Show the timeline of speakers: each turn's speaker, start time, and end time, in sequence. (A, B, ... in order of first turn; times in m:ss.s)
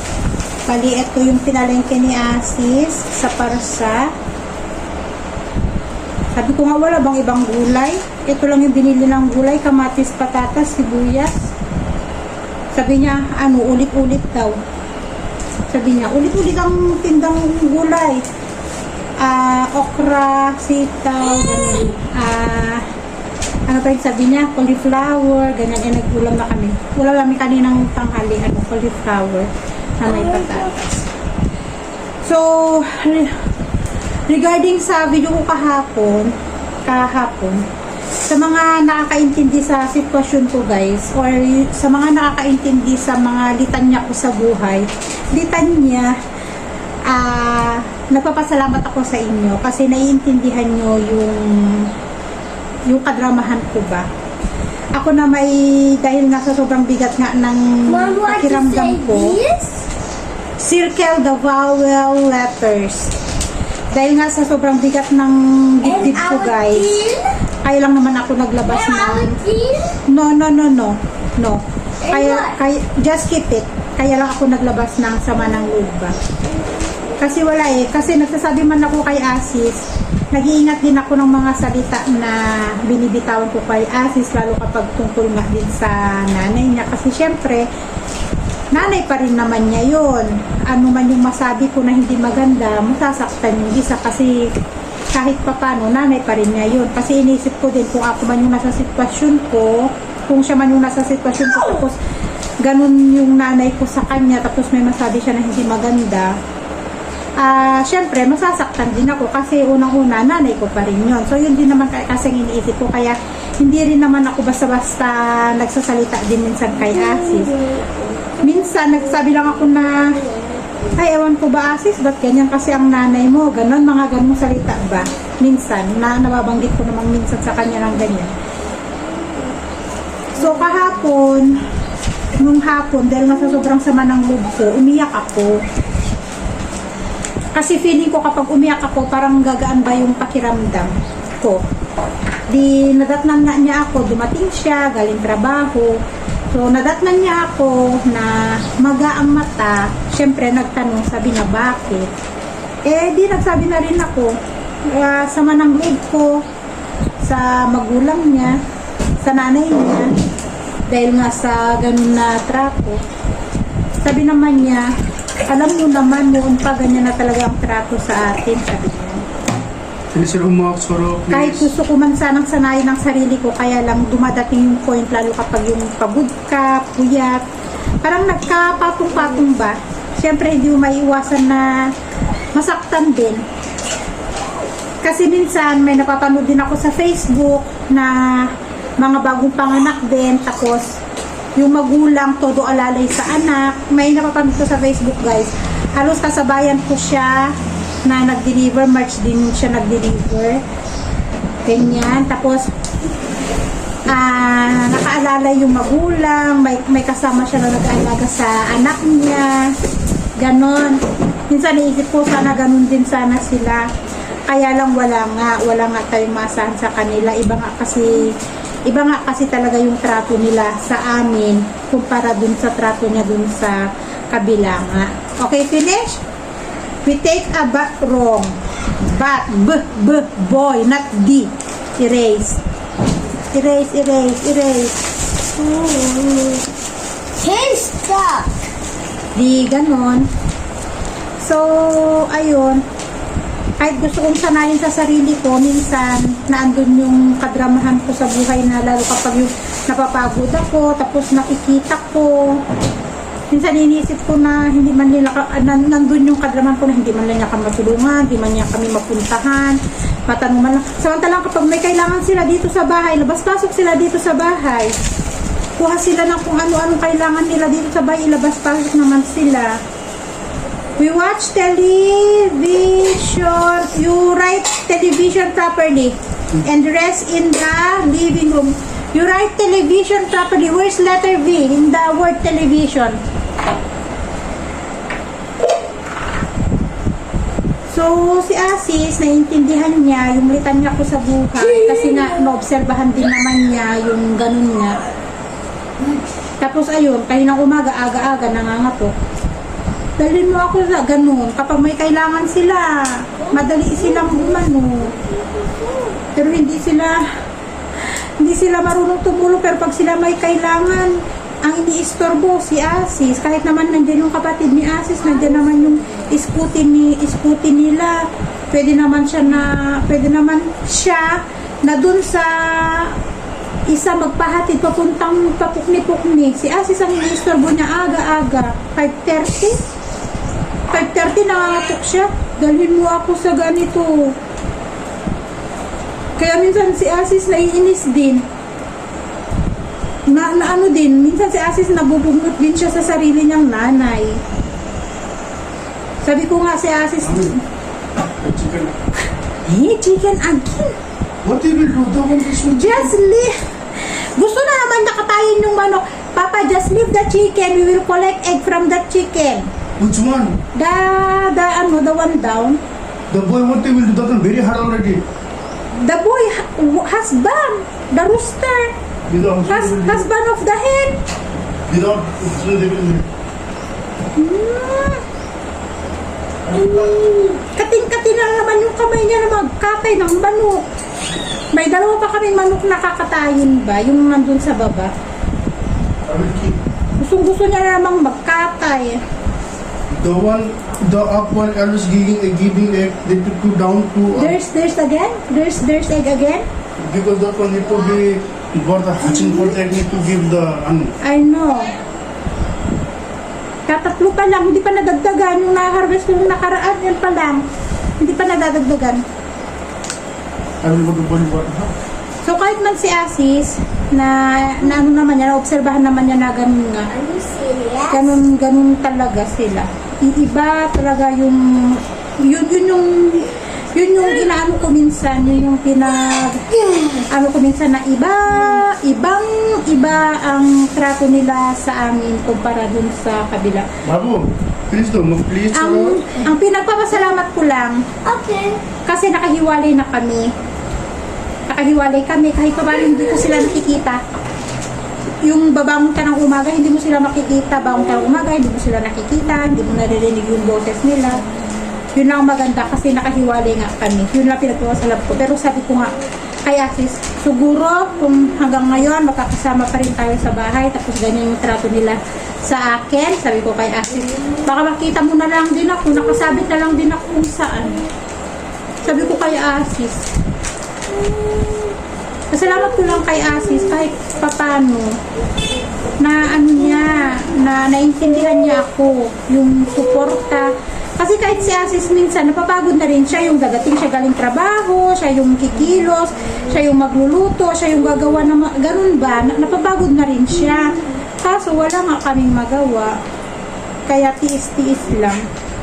0:00.6-0:04.1 A
0:06.3-0:11.5 A
0:12.7-0:14.6 A
0:15.7-0:18.2 A
0:19.2-0:22.8 A
0:23.7-0:31.1 A
0:32.2-0:33.4 A
0:34.3-0:36.3 A
0:36.8-0:37.6 A
0:38.3-0:46.1 A
0:47.1-0:51.9 A
0:52.9-0:54.1 A
0:54.9-0:59.4 A
0:57.9-0:59.8 B
1:00.6-1:03.2 A
1:03.9-1:06.9 A
1:05.8-1:07.3 B
1:07.6-1:09.4 A
1:08.7-1:10.0 B
1:10.1-1:16.2 A
1:12.0-1:12.5 B
1:17.2-1:27.6 A
1:28.7-1:34.5 A
1:35.1-1:42.0 A
1:42.6-1:46.3 A
1:47.4-1:57.7 A
1:58.4-2:00.2 A
2:00.9-2:08.3 A
2:10.3-2:11.5 A
2:12.4-2:15.6 A
2:17.5-2:21.6 A
2:22.5-2:26.0 A
2:26.5-2:32.1 A
2:32.8-2:36.4 A
2:37.2-2:38.6 A
2:39.2-2:40.1 A
2:40.9-2:43.0 A
2:44.0-2:44.9 A
2:45.5-2:49.2 A
2:50.1-2:51.7 C
2:51.3-2:57.4 A
2:58.0-3:01.9 A
3:02.5-3:03.4 A
3:05.0-3:10.8 A
3:11.6-3:17.5 A
3:18.0-3:20.6 A
3:21.6-3:22.7 A
3:24.1-3:29.7 A
3:30.4-3:33.8 A
3:34.5-3:38.3 A
3:38.8-3:46.2 A
3:47.0-3:52.6 A
3:53.5-3:54.9 A
3:55.6-3:56.6 B
3:57.4-3:58.5 B
3:59.3-4:00.3 A
4:01.4-4:02.8 A
4:03.8-4:12.6 A
4:13.5-4:24.9 A
4:25.8-4:29.8 A
4:31.0-4:43.2 A
4:47.9-4:55.0 A
4:56.6-4:59.1 A
5:00.2-5:05.2 A
5:03.5-5:04.6 B
5:05.2-5:06.2 B
5:06.3-5:07.2 A
5:08.0-5:23.2 A
5:23.9-5:29.8 A
5:30.9-5:34.4 A
5:36.4-5:38.4 A
5:40.2-5:44.4 A
5:46.2-5:47.6 A
5:47.2-5:47.5 C
5:48.4-5:49.0 C
5:49.6-5:51.0 A
5:51.4-5:53.1 C
5:52.6-5:59.7 A
6:00.0-6:00.6 C
6:00.8-6:02.8 A
6:03.3-6:05.2 C
6:06.0-6:09.0 A
6:09.3-6:10.2 C
6:09.7-6:11.2 A
6:11.9-6:13.3 C
6:14.4-6:15.2 A
6:16.6-6:17.2 C
6:16.7-6:17.6 B
6:17.6-6:20.8 A
6:21.7-6:25.1 A
6:26.2-6:26.8 C
6:27.2-6:29.2 A
6:30.1-6:34.6 C
6:34.3-6:36.6 A
6:37.0-6:41.1 C
6:39.4-6:39.7 A
6:41.2-6:42.0 A
6:43.9-6:47.6 A
6:48.2-6:49.2 A
6:50.8-6:51.9 C
6:52.4-6:57.2 A
6:57.1-6:58.3 B
6:58.1-7:13.9 A
7:06.8-7:07.2 B
7:14.0-7:16.2 C
7:15.7-7:18.0 A
7:18.2-7:18.8 B
7:19.0-7:20.5 A
7:21.7-7:24.2 A
7:25.4-7:31.4 A
7:32.1-7:48.0 A
7:49.0-7:50.2 A
7:52.5-7:55.2 A
7:56.2-8:13.2 A
8:14.1-8:15.4 A